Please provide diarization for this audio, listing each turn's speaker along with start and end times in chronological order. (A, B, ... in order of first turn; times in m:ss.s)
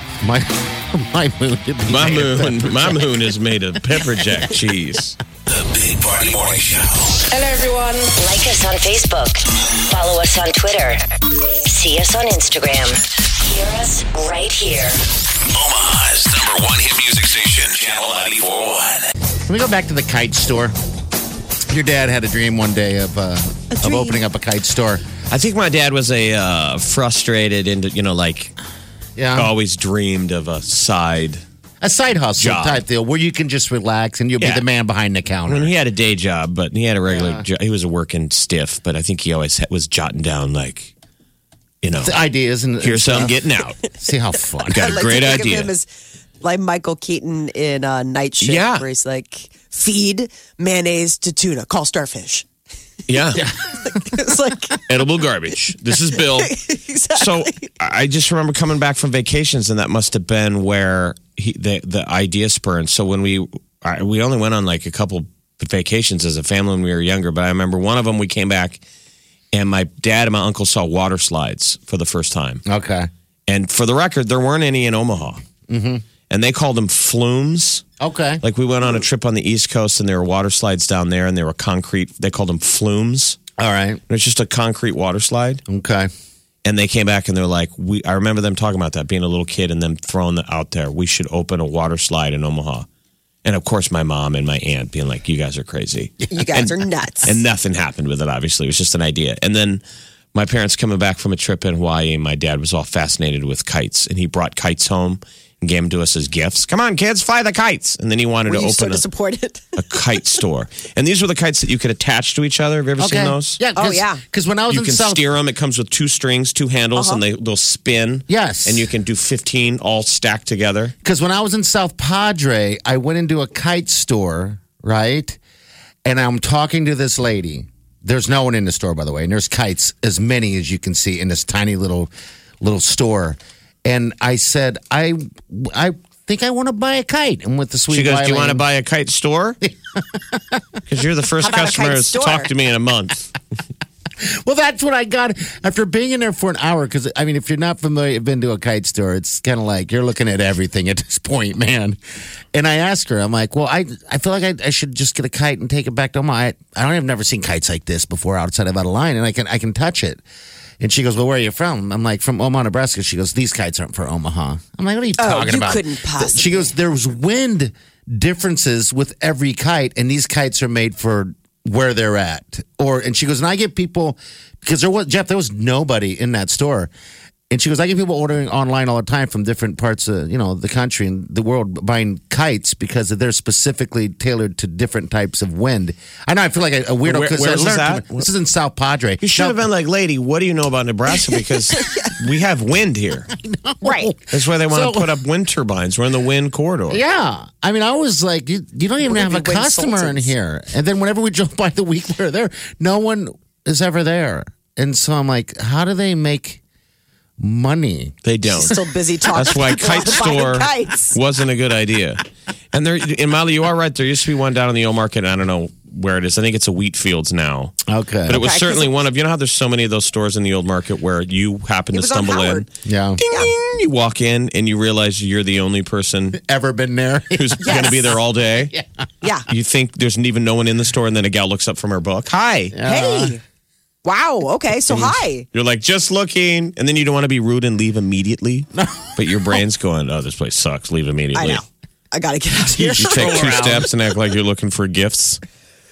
0:00.2-0:03.1 A
0:01.9-0:05.2 B
0:03.9-0:04.4 A
0:05.5-0:07.3 C
0:07.3-0:15.2 D
0:15.5-0:19.1 C
0:19.5-0:20.8 A
0:21.7-0:25.0 A
0:23.8-0:24.2 E
0:25.3-0:28.5 B
0:29.2-0:29.5 A
0:29.4-0:31.4 B
0:31.8-0:35.7 A
0:32.4-0:32.8 B
0:35.5-0:40.9 B
0:37.1-0:37.5 A
0:41.8-0:42.2 B
0:42.0-0:43.4 A
0:42.8-0:43.8 B
0:43.9-0:44.9 A
0:44.7-0:45.9 E
0:44.7-0:45.7 B
0:46.4-0:52.5 E
0:48.4-0:48.8 B
0:53.1-0:53.5 B
0:53.4-0:53.7 A
0:53.8-0:54.8 E
0:54.9-0:56.6 B
0:56.4-0:57.7 E
0:57.1-1:08.8 B
1:09.5-1:12.6 B
1:12.7-1:13.1 A
1:13.5-1:15.4 B
1:15.7-1:16.0 A
1:16.3-1:17.8 B
1:18.0-1:18.4 A
1:18.4-1:23.4 B
1:23.6-1:24.0 A
1:24.1-1:25.6 B
1:25.7-1:26.1 A
1:26.6-1:32.9 B
1:33.4-1:39.8 B
1:36.3-1:37.4 E
1:40.3-1:49.0 B
1:48.5-1:50.2 E
1:49.8-1:53.6 B
1:53.0-1:55.3 A
1:53.8-1:54.2 E
1:54.7-2:00.9 B
1:57.0-1:57.2 E
1:58.3-1:58.9 A
2:01.0-2:05.4 A
2:06.0-2:18.6 A
2:17.9-2:19.6 B
2:19.6-2:20.6 A
2:20.9-2:23.4 B
2:21.4-2:22.5 E
2:24.2-2:32.0 A
2:32.5-2:40.2 A
2:40.8-2:56.9 A
2:45.2-2:46.7 E
2:57.5-3:09.6 A
3:07.0-3:08.3 B
3:09.2-3:13.3 B
3:11.7-3:12.1 E
3:13.3-3:15.1 A
3:13.8-3:14.1 E
3:14.3-3:17.0 B
3:16.9-3:26.6 A
3:19.0-3:20.3 E
3:27.4-3:28.2 A
3:28.2-3:28.8 B
3:28.5-3:31.2 E
3:29.3-3:37.8 B
3:37.9-3:38.5 A
3:38.3-3:42.7 B
3:38.3-3:38.9 E
3:41.9-3:42.7 E
3:42.8-3:43.2 A
3:43.2-3:46.4 B
3:46.3-3:48.2 A
3:47.4-3:48.7 B
3:47.6-3:48.0 E
3:49.2-3:49.5 E
3:49.5-3:52.8 B
3:52.7-3:53.4 A
3:52.8-3:53.4 E
3:54.0-3:55.5 E
3:55.5-4:01.6 B
3:58.8-3:59.6 A
4:01.4-4:03.6 E
4:02.7-4:03.9 A
4:03.0-4:05.4 B